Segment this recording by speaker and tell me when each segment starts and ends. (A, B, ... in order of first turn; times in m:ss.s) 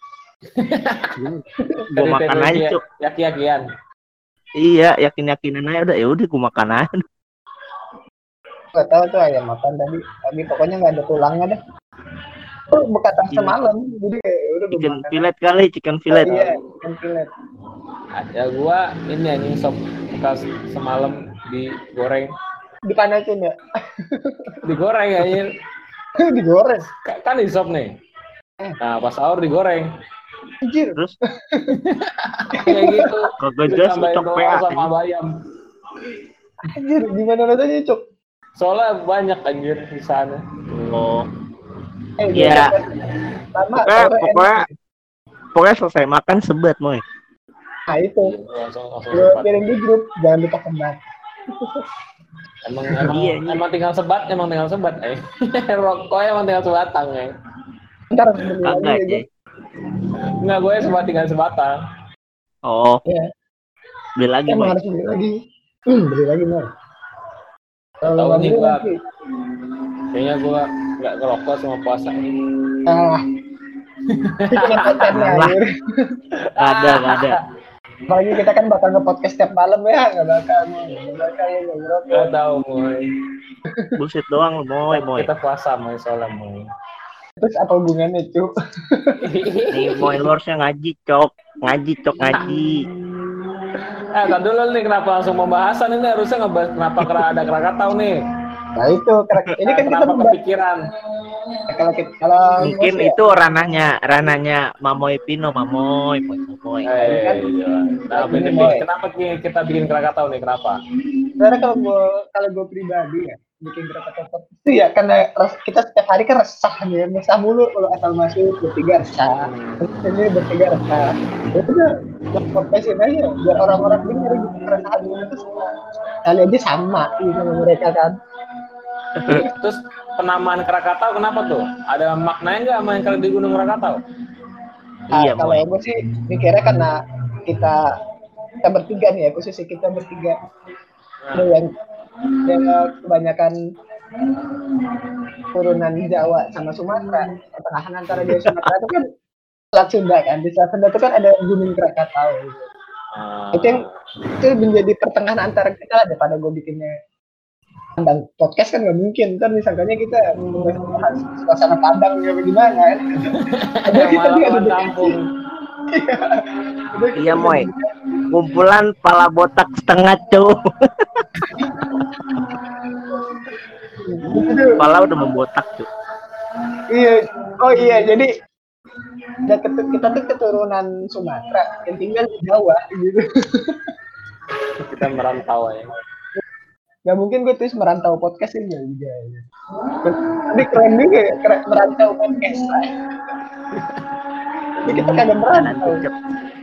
0:00.6-0:01.1 A
0:01.2-0:01.4 B
0:02.0-0:03.6 A
0:02.0-0:02.8 B
0:04.6-0:06.9 B
0:08.7-0:11.6 C
0:12.7-0:15.3 C
0:13.3-0:13.6 B
0:14.7-0:16.5 B
0:16.1-0:17.3 C
0:18.2-0:22.3 A
0:22.9-0:23.5 C
0:24.1-0:24.6 C
0:24.6-0:25.5 A
0:26.2-0:26.9 C
0:27.0-0:27.9 A
0:28.8-0:29.9 A
0:30.6-0:31.0 C
0:31.7-0:35.3 A
0:32.6-0:33.2 C
0:33.4-0:34.9 B
0:36.7-0:38.0 C
0:38.6-0:40.4 A
0:40.7-0:41.2 B
0:42.2-0:43.0 C
0:42.3-0:42.7 B
0:43.5-0:44.7 C
0:43.8-0:44.6 B
0:45.5-0:47.0 B
0:47.9-0:48.3 C
0:48.2-0:49.6 A
0:49.1-0:51.0 C
0:52.6-0:57.3 A
0:53.0-0:53.6 B
0:58.1-0:59.2 C
0:58.6-0:59.2 B
1:00.4-1:01.7 A
1:02.7-1:03.0 B
1:04.2-1:04.7 B
1:04.5-1:05.3 C
1:05.9-1:06.6 C
1:08.0-1:09.0 C
1:08.1-1:08.9 A
1:10.1-1:12.3 A
1:12.8-1:13.2 C
1:14.1-1:15.2 A
1:14.5-1:15.6 C
1:15.1-1:15.5 B
1:16.4-1:17.3 A
1:16.6-1:17.4 B
1:18.1-1:22.3 C
1:22.1-1:23.1 A
1:24.0-1:25.3 B
1:24.9-1:26.6 A
1:27.4-1:29.2 C
1:29.2-1:30.2 A
1:29.7-1:32.8 B
1:34.1-1:38.2 A
1:38.8-1:40.4 C
1:39.6-1:40.8 A
1:41.7-1:43.2 C
1:42.6-1:46.9 B
1:46.8-1:50.8 A
1:47.0-1:47.4 C
1:48.1-1:48.8 C
1:51.4-2:05.7 C
1:59.4-2:00.1 A
2:06.2-2:08.1 C
2:09.2-2:09.4 B
2:09.3-2:14.0 A
2:15.1-2:15.6 B
2:15.1-2:17.0 C
2:17.5-2:17.8 C
2:18.6-2:20.4 C
2:21.2-2:21.5 A
2:21.4-2:21.7 C
2:22.4-2:23.6 C
2:25.5-2:29.0 C
2:29.7-2:32.7 C
2:33.1-2:33.9 A
2:33.5-2:33.8 C
2:34.4-2:36.9 C
2:38.0-2:43.3 C
2:43.3-2:45.2 A
2:43.9-2:45.1 C
2:45.9-2:46.2 C
2:46.9-2:47.9 C
2:47.2-2:47.6 B
2:48.3-2:50.5 B
2:51.5-2:52.0 C
2:54.0-2:54.8 C
2:54.8-2:55.8 B
2:56.9-2:58.3 C
2:59.5-3:03.8 C
3:04.8-3:05.9 A
3:07.1-3:09.4 C
3:10.0-3:12.9 C
3:13.7-3:14.1 A
3:14.8-3:16.0 C
3:15.0-3:16.1 B